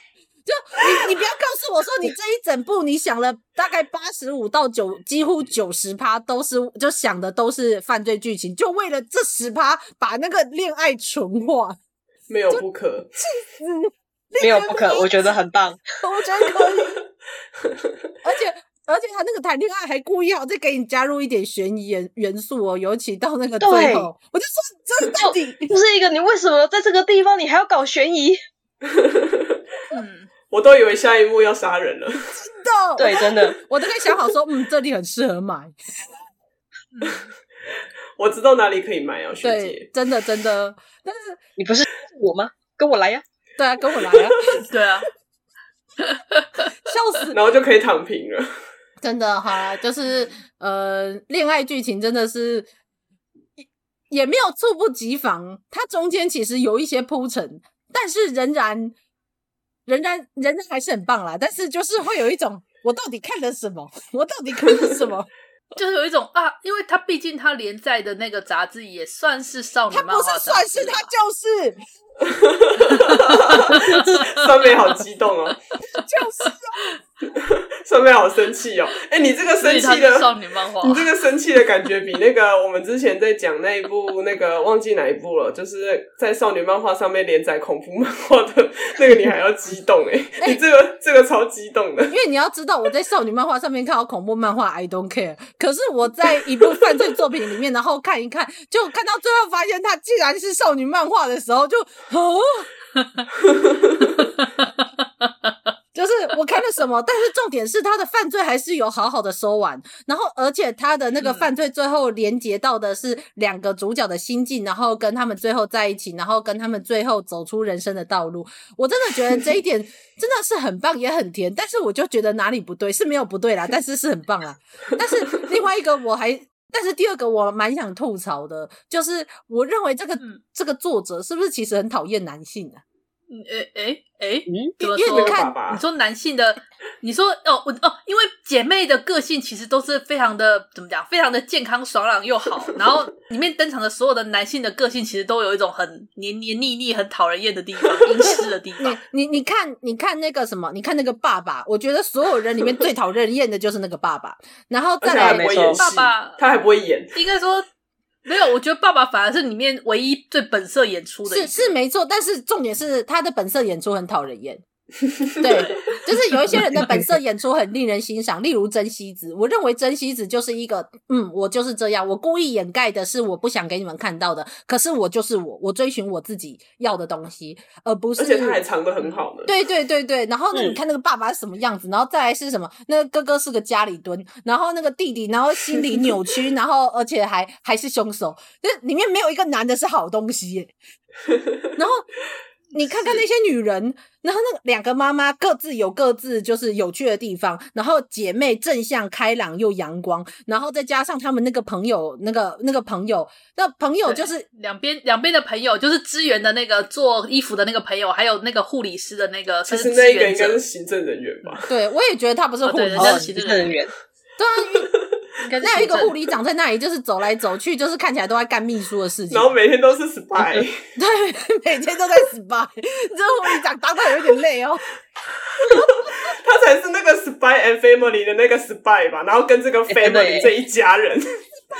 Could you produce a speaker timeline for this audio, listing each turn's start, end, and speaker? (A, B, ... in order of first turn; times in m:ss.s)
0:00.4-0:11.8 A
0:12.3-0:13.1 B
0:13.2-0:15.3 A
0:14.4-0:15.8 C
0:16.0-0:17.0 A
0:18.2-0:25.7 A
0:23.6-0:24.1 C
0:25.1-0:28.4 C
0:28.8-0:29.6 B
0:29.9-0:30.3 D
0:30.5-0:32.3 B
0:32.4-0:35.7 A
0:33.0-0:33.6 C
0:36.9-0:37.3 D
0:38.2-0:39.9 B
0:39.4-0:41.4 A
0:41.6-0:43.2 C
0:43.6-0:44.6 A
0:44.0-0:44.6 B
0:44.7-0:45.1 D
0:46.1-0:46.7 D
0:46.8-0:47.4 A
0:47.3-0:48.5 B
0:49.0-0:52.7 A
0:53.6-0:58.9 A
0:59.8-1:05.3 A
1:05.8-1:11.1 D
1:09.9-1:11.8 A
1:12.2-1:15.6 B
1:16.0-1:16.7 A
1:17.4-1:32.1 B
1:19.6-1:21.1 D
1:32.1-1:42.7 A
1:44.4-1:44.7 D
1:45.2-1:45.5 D
1:45.9-2:12.8 A
2:13.3-2:29.0 D
2:14.8-2:15.5 A
2:15.0-2:15.8 B
2:28.2-2:35.5 A
2:35.0-2:37.1 B
2:35.1-2:35.8 C
2:35.8-2:36.4 D
2:37.1-2:37.6 D
2:38.2-2:41.7 D
2:41.3-2:44.6 A
2:45.4-2:58.6 A
2:45.5-2:46.0 D
2:58.2-2:59.5 B
2:59.4-3:10.7 A
3:00.5-3:00.8 C
3:11.8-3:12.1 A
3:12.7-3:24.4 A
3:24.0-3:30.6 D
3:29.7-3:31.6 B
3:31.7-3:33.3 A
3:32.6-3:33.8 D
3:33.0-3:33.9 C
3:34.4-3:34.9 A
3:35.4-3:36.1 D
3:35.6-3:39.5 A
3:39.3-3:40.8 B
3:41.0-3:44.8 A
3:45.6-3:51.4 B
3:49.9-3:50.5 C